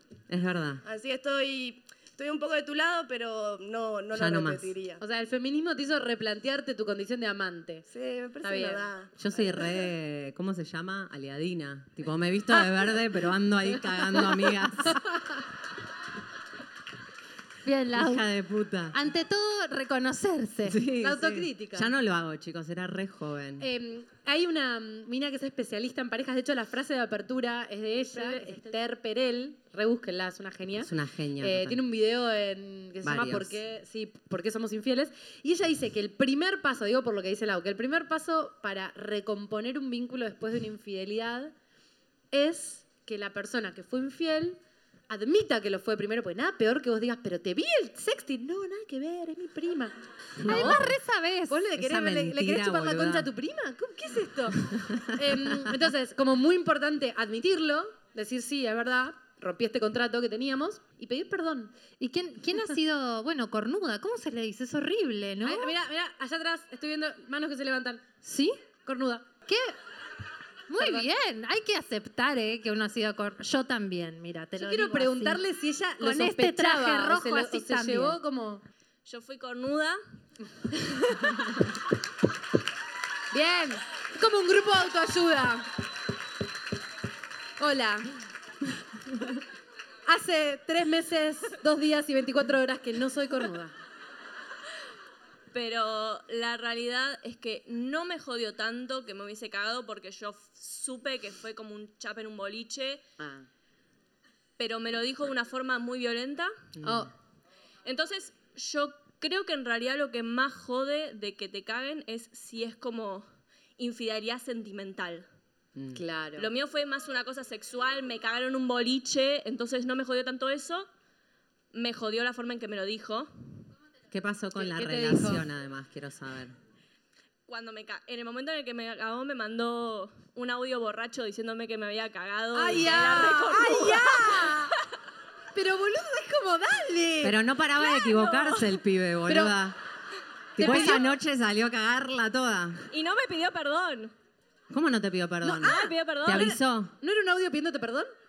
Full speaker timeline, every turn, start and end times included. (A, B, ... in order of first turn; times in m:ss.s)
0:00.3-0:00.8 A
0:00.8-0:05.0 B
0:04.1-0:04.7 A
0:05.0-0:07.8 C
0:07.9-0:09.8 B
0:08.4-0:08.8 C
0:09.2-0:15.1 A
0:17.6-0:18.2 D
0:17.9-0:19.0 A
0:18.9-0:20.8 D
0:20.6-0:23.7 A
0:21.0-0:21.9 C
0:23.6-0:41.5 C
0:28.2-0:28.4 E
0:30.8-0:31.8 A
0:33.0-0:33.6 A
0:42.3-0:50.9 C
0:50.4-0:50.9 A
0:50.4-0:51.6 D
0:51.5-1:01.7 C
0:51.8-0:53.3 A
0:54.7-0:55.7 A
1:02.0-1:05.7 D
1:05.4-1:08.1 C
1:08.2-1:08.6 D
1:08.8-1:09.3 C
1:09.5-1:09.7 D
1:10.7-1:15.4 D
1:10.8-1:11.0 C
1:14.6-1:18.6 C
1:16.0-1:18.2 D
1:19.0-1:20.0 E
1:23.3-1:25.7 C
1:27.6-1:28.1 C
1:30.0-1:33.7 C
1:35.5-1:43.0 E
1:43.2-1:43.5 C
1:44.6-1:46.5 E
1:46.8-1:47.1 A
1:46.8-1:47.1 C
1:47.8-1:53.3 E
1:53.8-1:55.2 E
1:55.8-1:56.0 A
1:55.9-1:56.5 C
1:56.4-2:00.9 E
2:01.7-2:03.3 E
2:04.1-2:06.6 A
2:04.6-2:05.5 C
2:07.5-2:14.6 E
2:12.5-2:14.7 C
2:15.5-2:17.4 C
2:17.2-2:19.8 A
2:17.7-2:18.8 E
2:19.3-2:19.5 C
2:20.6-2:22.9 A
2:20.6-2:21.0 C
2:22.9-2:24.1 E
2:24.7-2:26.9 A
2:25.4-2:28.1 C
2:25.6-2:26.6 E